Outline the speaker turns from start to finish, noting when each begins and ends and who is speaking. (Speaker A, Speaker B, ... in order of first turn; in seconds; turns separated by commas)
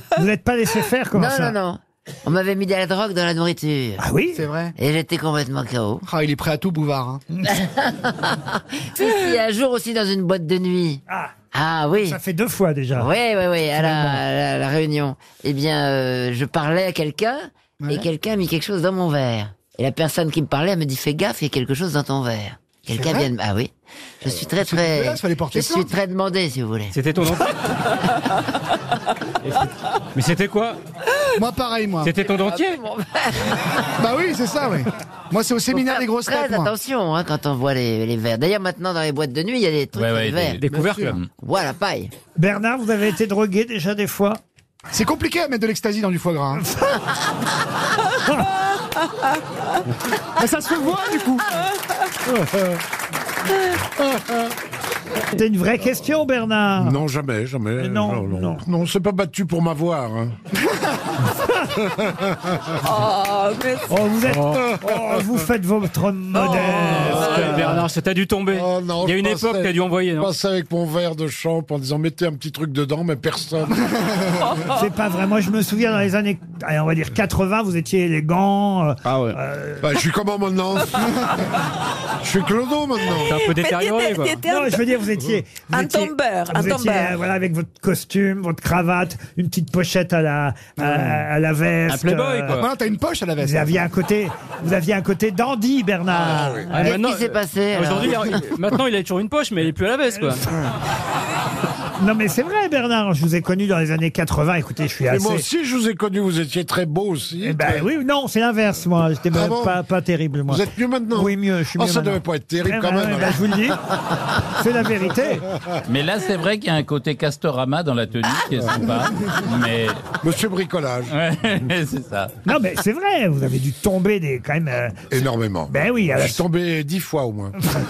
Speaker A: 0.2-1.6, Speaker B: 1.1-4.0, Speaker A: 4.0-4.5, Speaker C: 4.3-4.7, Speaker B: 4.8-6.0, Speaker C: 6.0-7.2, Speaker B: 7.5-11.0, Speaker A: 11.1-11.3, Speaker B: 11.5-12.2, Speaker A: 12.0-13.1, Speaker B: 13.0-26.9, Speaker A: 13.8-14.2, Speaker C: 17.8-18.1, Speaker C: 22.9-23.3, Speaker C: 24.6-25.9, Speaker D: 26.9-27.6, Speaker D: 29.4-30.8, Speaker C: 31.4-32.2, Speaker D: 32.0-32.8, Speaker B: 32.2-33.8, Speaker C: 34.0-36.7, Speaker B: 35.7-40.8, Speaker E: 40.0-41.3, Speaker D: 40.6-41.2, Speaker C: 40.8-41.1, Speaker B: 41.4-42.1, Speaker A: 42.4-44.4, Speaker C: 44.9-46.6, Speaker A: 46.7-47.0, Speaker C: 50.4-51.5, Speaker F: 52.3-52.8, Speaker A: 55.3-57.0, Speaker F: 56.8-60.4, Speaker A: 57.8-58.6, Speaker G: 62.8-63.9, Speaker A: 63.9-67.8, Speaker F: 64.3-64.8, Speaker D: 66.4-70.3, Speaker G: 67.2-67.4, Speaker F: 68.5-73.8, Speaker G: 74.4-74.7, Speaker A: 74.7-79.9, Speaker D: 79.0-79.4, Speaker F: 79.8-81.1, Speaker F: 82.2-83.4, Speaker G: 83.2-84.9, Speaker D: 83.3-84.4, Speaker A: 84.5-92.6, Speaker G: 85.7-87.2, Speaker C: 90.8-91.2, Speaker D: 91.9-92.7, Speaker C: 92.5-93.8, Speaker A: 93.4-97.0, Speaker F: 96.2-96.6, Speaker D: 96.7-100.5, Speaker B: 96.8-98.5, Speaker A: 102.0-105.5, Speaker F: 105.1-107.9, Speaker A: 107.4-110.6, Speaker F: 109.3-109.8, Speaker F: 110.5-113.4, Speaker A: 111.1-113.8, Speaker A: 114.5-115.5, Speaker E: 115.9-120.0, Speaker F: 120.2-121.1, Speaker E: 121.1-122.3, Speaker A: 122.5-125.0, Speaker F: 125.1-127.5, Speaker A: 125.7-126.4